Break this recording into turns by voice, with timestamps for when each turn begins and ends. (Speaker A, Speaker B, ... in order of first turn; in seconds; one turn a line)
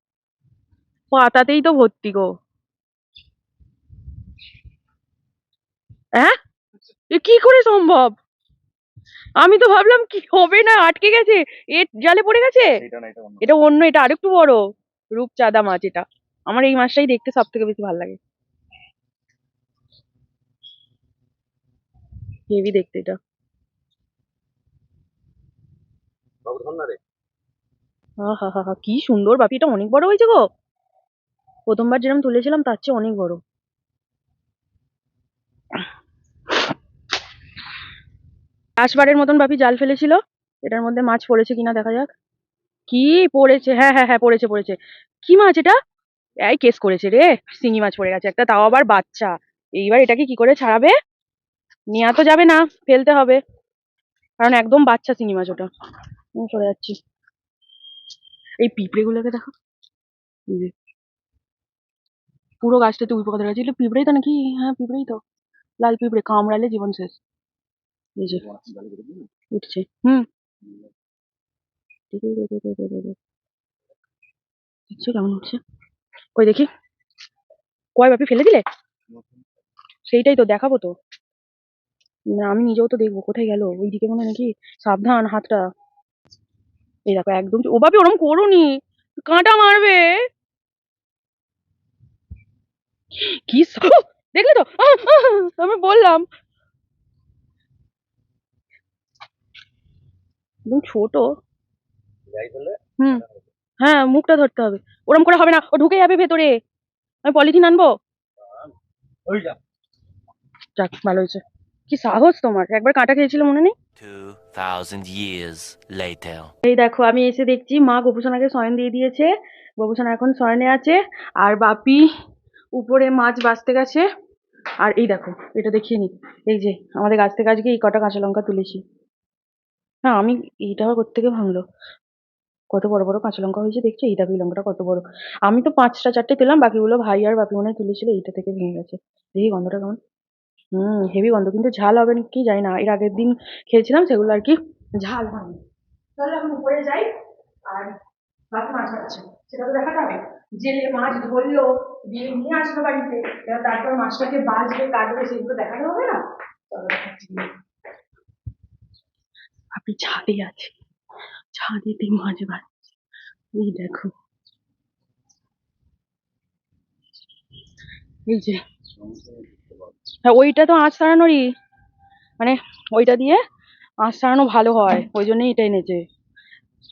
Speaker A: 1.1-2.3
Speaker A: 7.1-8.2
Speaker A: 9.4-12.7
Speaker B: 12.8-13.5
Speaker A: 13.4-14.6
Speaker A: 15.1-18.2
Speaker A: 22.5-23.2
Speaker B: 26.5-27.0
Speaker A: 28.2-30.4
Speaker A: 31.7-33.4
Speaker A: 38.8-42.1
Speaker A: 42.9-45.8
Speaker A: 46.5-50.9
Speaker A: 51.9-53.4
Speaker A: 54.4-55.7
Speaker A: 56.4-57.0
Speaker A: 58.6-59.5
Speaker A: 62.6-65.2
Speaker A: 65.8-67.2
Speaker B: 68.6-69.2
Speaker A: 69.5-70.2
Speaker A: 72.1-73.2
Speaker A: 74.9-75.6
Speaker A: 76.4-76.7
Speaker A: 78.0-78.6
Speaker A: 80.1-80.9
Speaker A: 82.3-85.7
Speaker A: 87.1-88.7
Speaker A: 89.3-90.1
Speaker A: 93.3-96.3
Speaker A: 100.7-101.3
Speaker B: 102.4-102.7
Speaker A: 103.8-106.5
Speaker A: 107.2-107.9
Speaker A: 110.8-113.7
Speaker C: 114.0-116.5
Speaker A: 116.7-122.0
Speaker A: 122.8-124.0
Speaker A: 124.8-128.8
Speaker A: 130.1-131.6
Speaker A: 132.7-140.0
Speaker A: 140.8-145.6
Speaker A: 146.2-147.1
Speaker A: 147.7-147.9
Speaker A: 148.5-157.5
Speaker A: 159.7-160.7
Speaker A: 161.6-162.8
Speaker A: 163.6-164.1
Speaker A: 168.3-168.6
Speaker A: 170.2-171.4
Speaker A: 172.4-173.4
Speaker A: 174.0-176.0